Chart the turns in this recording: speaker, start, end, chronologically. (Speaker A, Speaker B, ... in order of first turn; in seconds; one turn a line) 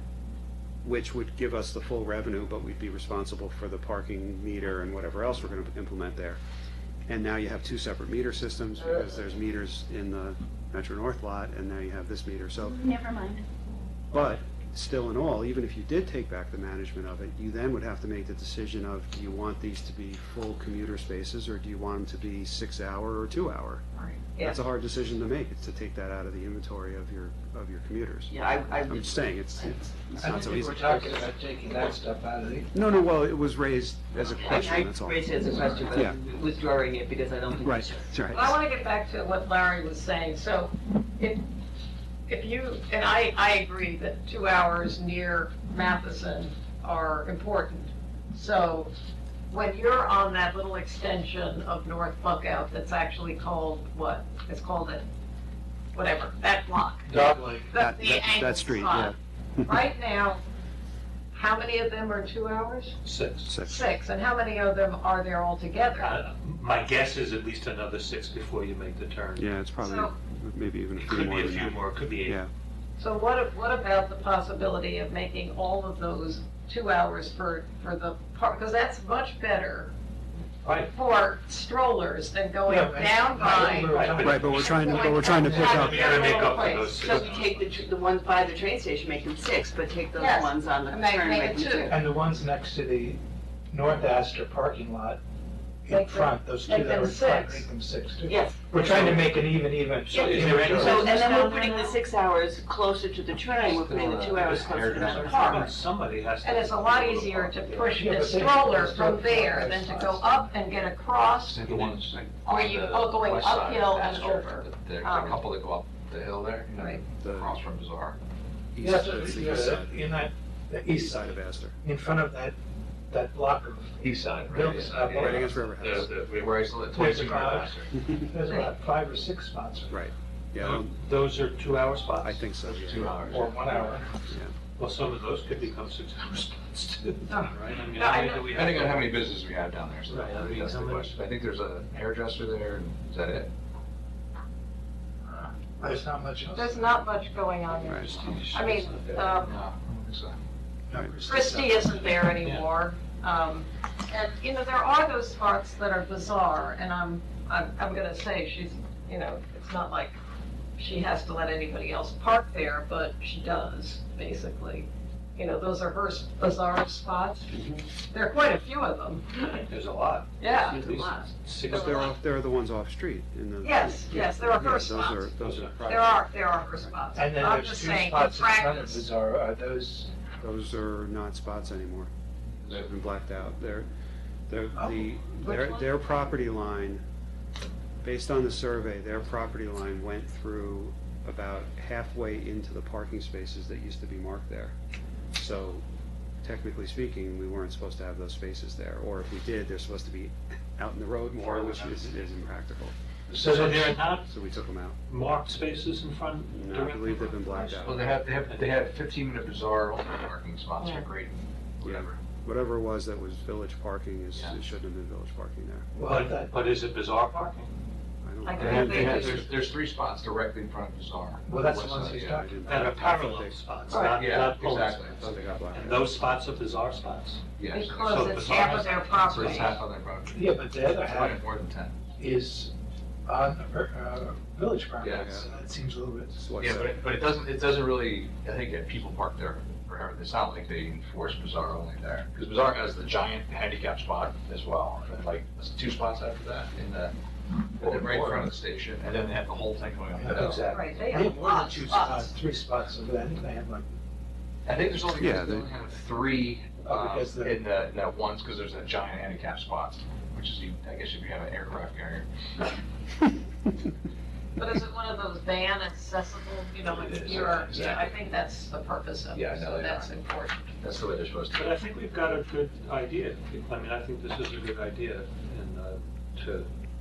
Speaker A: 0.8-6.4
Speaker A: 7.1-12.9
Speaker B: 13.0-13.4
Speaker A: 14.1-23.8
Speaker C: 24.0-24.6
Speaker A: 24.4-30.9
Speaker D: 28.3-28.9
Speaker B: 28.9-29.2
Speaker E: 30.2-32.7
Speaker D: 30.5-30.9
Speaker B: 31.0-31.2
Speaker A: 32.7-35.4
Speaker B: 34.5-35.0
Speaker D: 34.6-38.0
Speaker E: 35.6-35.8
Speaker A: 35.9-36.2
Speaker A: 37.6-38.6
Speaker C: 38.3-41.4
Speaker C: 42.3-48.9
Speaker C: 49.5-55.1
Speaker C: 55.9-57.2
Speaker F: 57.1-57.4
Speaker E: 57.1-57.7
Speaker C: 57.7-59.1
Speaker A: 57.8-59.7
Speaker C: 59.7-60.4
Speaker C: 61.3-63.0
Speaker F: 63.0-63.5
Speaker A: 63.5-63.9
Speaker C: 63.6-66.1
Speaker F: 66.0-69.5
Speaker A: 69.4-72.5
Speaker C: 69.8-70.1
Speaker F: 71.0-72.4
Speaker C: 73.0-79.9
Speaker F: 80.6-80.9
Speaker C: 80.8-87.1
Speaker E: 82.7-86.0
Speaker F: 83.9-84.7
Speaker A: 84.2-86.3
Speaker F: 85.5-87.9
Speaker D: 87.0-89.3
Speaker B: 89.1-90.2
Speaker C: 90.1-91.9
Speaker D: 90.2-92.0
Speaker E: 91.9-93.2
Speaker E: 93.7-95.2
Speaker E: 95.9-101.1
Speaker C: 95.9-97.7
Speaker D: 98.3-98.6
Speaker F: 98.7-99.3
Speaker F: 100.1-101.4
Speaker C: 100.6-102.0
Speaker B: 100.8-105.6
Speaker D: 100.9-105.6
Speaker C: 103.5-104.4
Speaker F: 103.9-107.9
Speaker C: 105.1-105.7
Speaker C: 106.4-111.6
Speaker E: 107.9-110.5
Speaker B: 111.4-118.2
Speaker F: 111.6-112.1
Speaker C: 112.5-115.4
Speaker C: 116.7-117.0
Speaker A: 117.2-117.6
Speaker A: 118.8-120.0
Speaker E: 118.8-122.6
Speaker A: 120.9-121.8
Speaker E: 123.1-125.8
Speaker B: 124.0-128.1
Speaker A: 124.9-126.1
Speaker F: 125.8-126.2
Speaker E: 126.8-130.0
Speaker C: 128.4-128.7
Speaker A: 129.9-131.0
Speaker F: 130.6-132.5
Speaker A: 132.2-133.5
Speaker B: 132.7-133.5
Speaker E: 133.3-134.2
Speaker A: 134.3-134.5
Speaker F: 134.8-139.3
Speaker C: 137.3-138.5
Speaker B: 138.4-143.5
Speaker F: 140.1-141.2
Speaker E: 145.3-146.9
Speaker C: 146.5-149.7
Speaker F: 147.8-149.6
Speaker A: 147.9-148.1
Speaker B: 149.4-150.4
Speaker E: 150.9-152.1
Speaker C: 151.2-160.2
Speaker C: 160.8-167.5
Speaker A: 167.5-167.8
Speaker C: 168.1-169.7
Speaker F: 169.7-172.2
Speaker C: 170.4-172.1
Speaker A: 170.7-175.8
Speaker C: 173.6-179.1
Speaker F: 175.4-176.2
Speaker E: 177.2-180.1
Speaker A: 180.4-182.1
Speaker B: 182.6-182.9
Speaker A: 182.7-183.9
Speaker A: 184.5-187.0
Speaker E: 184.8-185.2
Speaker C: 185.4-185.9
Speaker A: 188.0-194.8
Speaker A: 195.3-195.8
Speaker A: 196.4-202.9
Speaker F: 201.4-202.0
Speaker B: 203.3-203.7
Speaker F: 203.4-204.3
Speaker A: 204.2-205.0
Speaker F: 205.1-208.7
Speaker A: 206.5-208.1
Speaker B: 207.8-212.2
Speaker C: 210.8-211.1
Speaker A: 211.8-215.9
Speaker E: 216.0-216.6
Speaker F: 216.0-217.7
Speaker A: 218.2-219.7
Speaker C: 218.4-219.4
Speaker B: 218.6-222.4
Speaker E: 221.4-222.8
Speaker A: 222.3-223.6
Speaker F: 222.6-229.8
Speaker C: 223.9-224.2
Speaker B: 224.2-225.4
Speaker A: 225.0-226.1
Speaker B: 227.6-228.5
Speaker C: 227.7-229.8
Speaker B: 229.2-232.0
Speaker E: 230.3-231.4
Speaker E: 232.1-232.7
Speaker E: 233.3-236.6
Speaker B: 235.0-235.4
Speaker A: 235.1-235.6
Speaker A: 236.4-237.0
Speaker B: 236.6-247.1
Speaker E: 247.8-248.5
Speaker B: 247.8-250.7
Speaker E: 250.1-253.9
Speaker C: 250.7-252.3
Speaker B: 254.7-262.3
Speaker A: 255.1-255.7
Speaker E: 256.8-257.7
Speaker C: 264.6-270.6
Speaker B: 266.9-268.1
Speaker B: 269.3-270.1
Speaker B: 270.8-271.8
Speaker F: 271.5-276.7